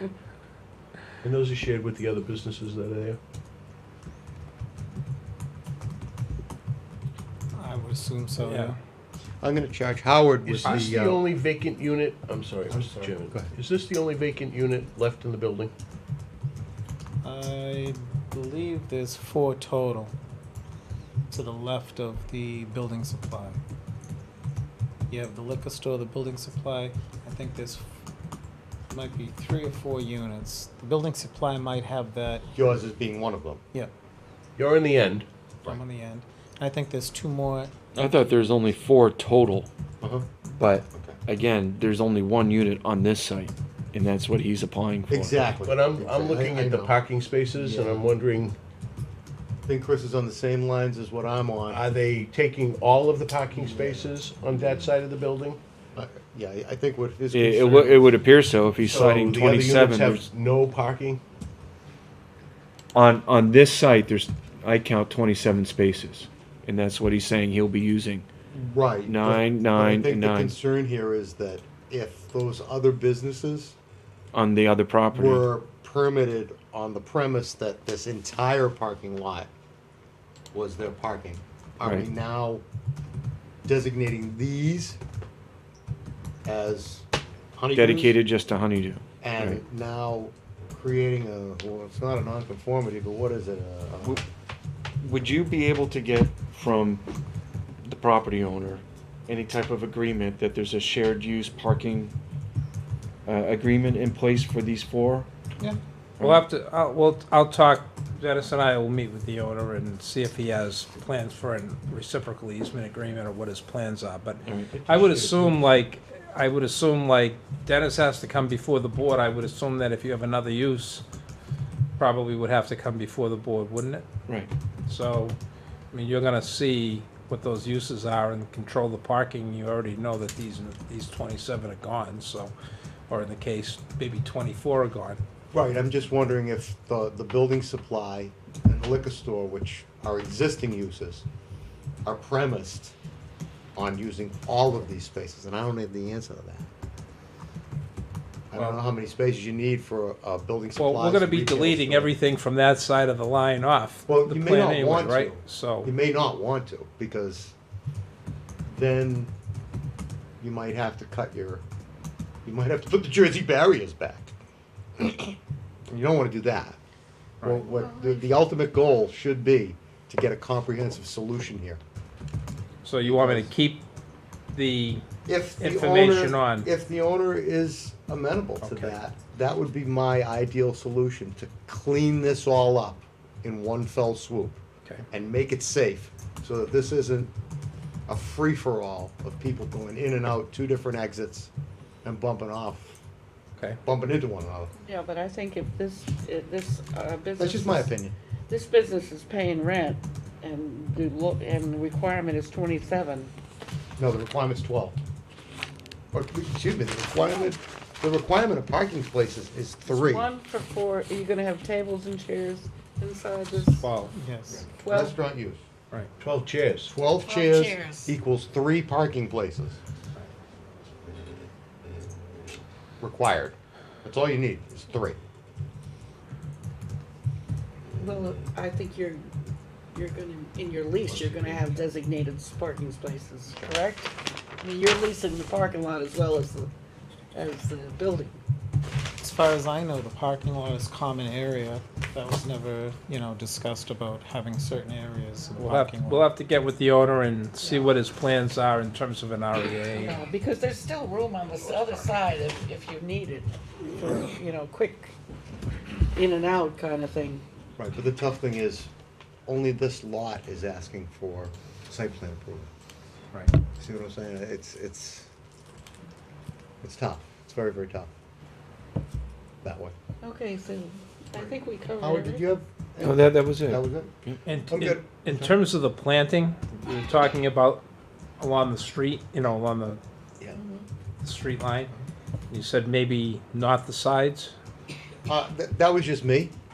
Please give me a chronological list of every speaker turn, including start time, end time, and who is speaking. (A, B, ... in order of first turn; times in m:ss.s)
0:01.2-0:03.2 A
0:07.5-0:08.8 B
0:08.4-0:08.7 C
0:09.4-0:11.2 D
0:10.4-0:15.7 A
0:10.6-0:10.9 C
0:12.7-0:13.5 D
0:17.2-0:20.1 B
0:21.3-0:23.6 B
0:25.1-0:28.0 B
0:28.9-0:32.5 B
0:32.5-0:33.6 D
0:34.6-0:35.3 A
0:35.7-0:38.5 B
0:37.9-0:39.7 E
0:40.0-0:40.3 D
0:40.6-0:45.4 E
0:40.9-0:41.2 D
0:45.1-0:47.0 D
0:45.6-0:48.6 A
0:47.6-0:48.1 D
0:49.7-0:51.8 D
0:51.7-0:55.6 A
0:53.5-0:54.1 D
0:56.0-0:58.1 D
0:57.3-1:00.2 E
0:58.8-1:01.2 A
1:03.0-1:08.3 E
1:08.5-1:13.8 D
1:09.1-1:10.5 E
1:14.3-1:15.5 E
1:15.1-1:19.5 D
1:20.5-1:22.6 D
1:23.7-1:25.0 D
1:26.5-1:28.2 D
1:27.8-1:29.6 E
1:29.2-1:34.2 D
1:35.0-1:37.1 E
1:37.8-1:42.2 E
1:43.3-1:45.3 E
1:46.2-1:46.4 E
1:46.2-2:01.0 C
1:54.5-1:54.7 E
1:54.7-1:55.6 A
2:02.0-2:04.0 C
2:04.9-2:05.4 C
2:05.9-2:12.5 C
2:13.1-2:15.2 C
2:15.5-2:21.3 D
2:22.0-2:23.0 D
2:23.8-2:26.7 D
2:28.5-2:32.2 D
2:28.5-2:28.8 C
2:30.8-2:35.9 C
2:34.1-2:37.6 D
2:38.7-2:39.3 D
2:40.4-2:41.6 D
2:42.5-2:44.3 D
2:45.0-2:45.4 D
2:45.9-2:46.8 D
2:47.4-2:51.8 D
2:47.7-2:48.4 F
2:52.8-2:53.8 C
2:53.0-2:53.5 D
2:54.6-2:55.0 C
2:55.3-3:04.6 D
2:55.6-2:56.7 C
2:58.6-2:59.0 C
3:05.1-3:07.3 D
3:08.1-3:11.5 D
3:12.0-3:13.0 D
3:13.8-3:14.7 D
3:14.8-3:17.9 F
3:17.4-3:18.1 D
3:18.5-3:23.3 F
3:24.0-3:25.0 D
3:26.1-3:30.3 D
3:29.9-3:33.9 F
3:33.7-3:34.1 C
3:34.1-3:34.6 B
3:34.5-3:35.6 D
3:34.8-3:35.2 F
3:36.2-3:36.9 A
3:36.9-3:39.8 D
3:37.2-3:38.2 F
3:43.0-3:45.2 D
3:48.0-3:49.3 F
3:49.9-3:56.7 F
3:51.1-3:51.8 D
3:57.3-3:58.4 F
3:59.2-4:06.3 B
4:05.6-4:10.2 C
4:07.6-4:07.9 F
4:09.9-4:15.2 F
4:16.2-4:17.4 F
4:17.8-4:18.9 D
4:19.5-4:22.7 D
4:23.8-4:25.3 D
4:26.8-4:28.1 D
4:29.6-4:30.0 D
4:30.2-4:32.4 F
4:31.3-4:34.1 D
4:33.0-4:34.4 E
4:34.5-4:37.8 C
4:34.7-4:35.6 D
4:38.4-4:40.0 C
4:40.5-4:40.9 F
4:41.2-4:41.9 C
4:42.5-4:44.5 C
4:45.3-4:46.5 D